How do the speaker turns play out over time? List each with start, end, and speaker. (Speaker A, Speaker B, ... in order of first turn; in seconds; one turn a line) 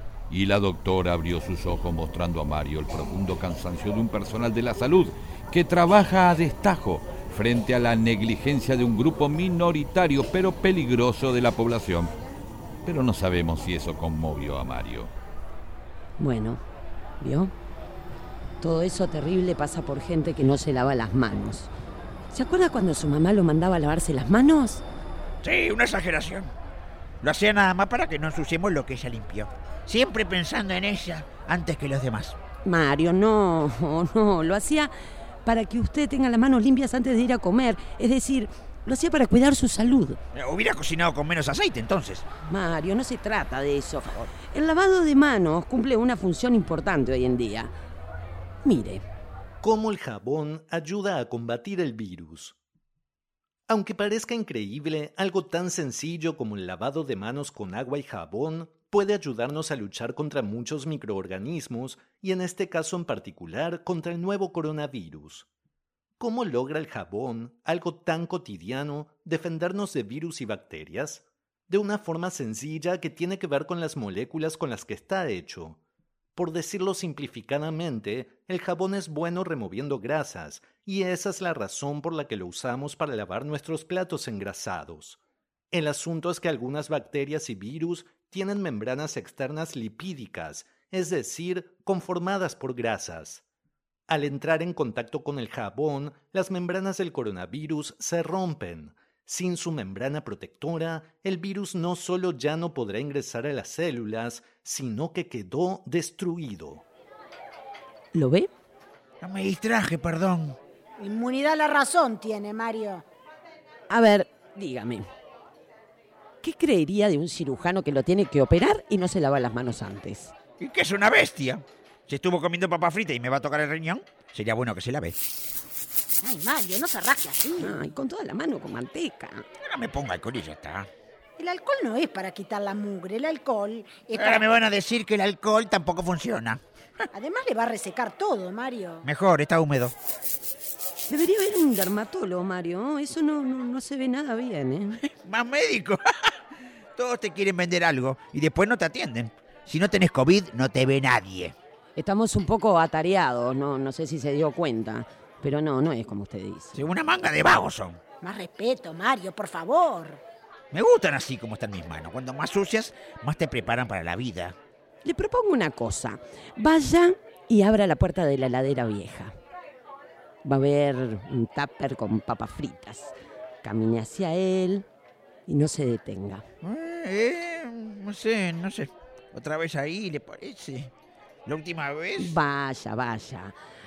Speaker A: 0.3-12.1
Speaker A: 12.8-15.1
Speaker B: 16.2-16.6
Speaker B: 17.2-17.5
Speaker B: 18.6-21.7
Speaker B: 22.3-24.8
Speaker C: 25.4-26.5
Speaker C: 27.2-32.4
Speaker B: 32.6-34.9
Speaker B: 35.4-40.2
Speaker C: 40.3-42.3
Speaker B: 42.5-47.7
Speaker B: 48.6-49.0
Speaker D: 49.6-52.5
Speaker D: 53.7-65.5
Speaker D: 66.2-75.8
Speaker D: 76.3-85.2
Speaker D: 85.7-93.4
Speaker D: 94.1-106.8
Speaker B: 108.1-108.5
Speaker C: 109.2-110.6
Speaker E: 111.0-113.0
Speaker B: 113.9-115.1
Speaker B: 116.4-120.3
Speaker C: 120.6-125.2
Speaker E: 126.2-127.7
Speaker B: 127.6-129.4
Speaker C: 129.6-130.9
Speaker E: 131.4-134.5
Speaker C: 134.1-137.1
Speaker E: 137.1-139.1
Speaker C: 139.0-139.9
Speaker B: 141.1-145.0
Speaker C: 145.0-146.3
Speaker C: 146.9-151.5
Speaker B: 151.9-156.8
Speaker C: 156.7-158.0
Speaker E: 158.2-160.2
Speaker C: 160.7-164.6
Speaker B: 165.0-169.3
Speaker B: 170.4-174.8
Speaker B: 175.5-176.4
Speaker C: 176.6-180.9
Speaker C: 181.4-182.3
Speaker B: 182.2-183.5